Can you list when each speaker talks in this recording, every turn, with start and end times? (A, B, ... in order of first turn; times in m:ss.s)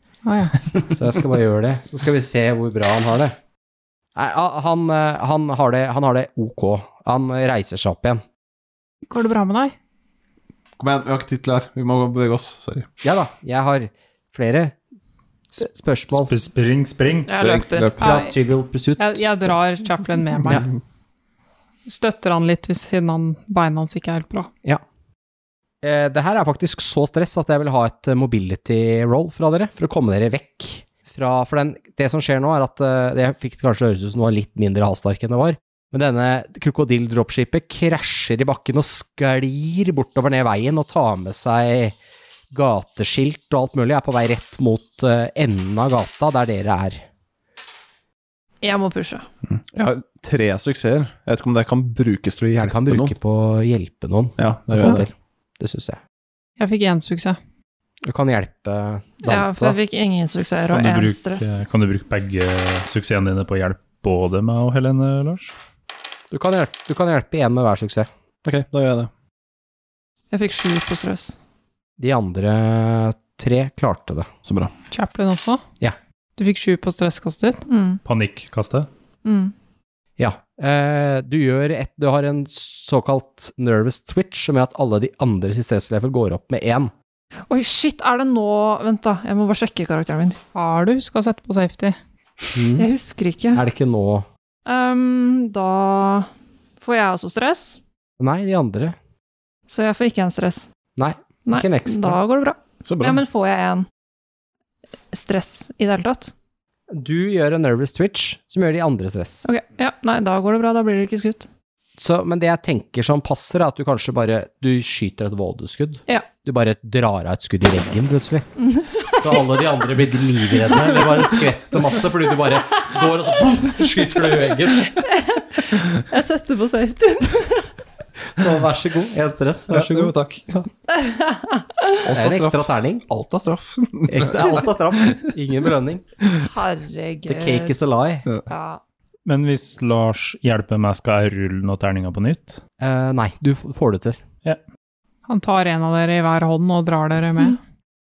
0:00.2-0:00.8 A
0:00.8-0:03.4 B
0:04.1-0:08.2 B
0:09.1-0:09.7 A
0:10.8-0:12.9 C
0:13.0-0:14.7 B
0:15.5-0:16.3 B
0:16.1-0:17.3 D
0:17.3-0:18.3 E
0:17.4-0:18.2 C
0:18.0-0:19.6 B
0:19.0-0:20.6 A
0:21.8-0:24.5 A
0:25.8-0:42.0 B
0:42.5-0:47.0 B
0:48.6-0:49.2 E
0:49.5-0:53.1 C
0:52.6-0:56.0 B
0:54.4-0:55.0 C
0:56.6-0:57.4 A
0:58.0-0:59.8 B
0:59.2-1:01.6 E
1:00.7-1:05.5 D
1:06.3-1:08.1 B
1:08.4-1:09.1 C
1:10.3-1:11.4 E
1:12.0-1:14.3 B
1:14.4-1:14.7 C
1:14.9-1:15.6 A
1:16.4-1:17.6 A
1:17.7-1:18.0 E
1:18.0-1:18.9 D
1:19.2-1:19.5 E
1:20.2-1:26.9 B
1:27.5-1:30.4 E
1:30.5-1:32.0 A
1:32.5-1:32.9 B
1:32.8-1:33.6 E
1:33.5-1:34.2 B
1:34.6-1:36.3 E
1:36.8-1:37.8 E
1:38.2-1:39.0 B
1:39.7-1:40.6 E
1:41.0-1:42.2 B
1:41.4-1:43.8 E
1:42.8-1:43.2 C
1:45.1-1:46.3 E
1:46.9-1:49.4 B
1:49.4-1:51.5 E
1:52.0-1:58.5 B
1:58.6-1:59.4 E
1:59.1-2:05.0 B
2:05.0-2:07.7 E
2:08.3-2:10.6 B
2:09.7-2:10.5 C
2:10.9-2:12.0 E
2:12.0-2:15.2 C
2:12.1-2:13.0 B
2:14.1-2:16.0 B
2:16.4-2:17.8 E
2:17.3-2:18.2 B
2:18.5-2:18.8 E
2:19.2-2:22.6 D
2:22.8-2:24.2 B
2:25.3-2:27.6 A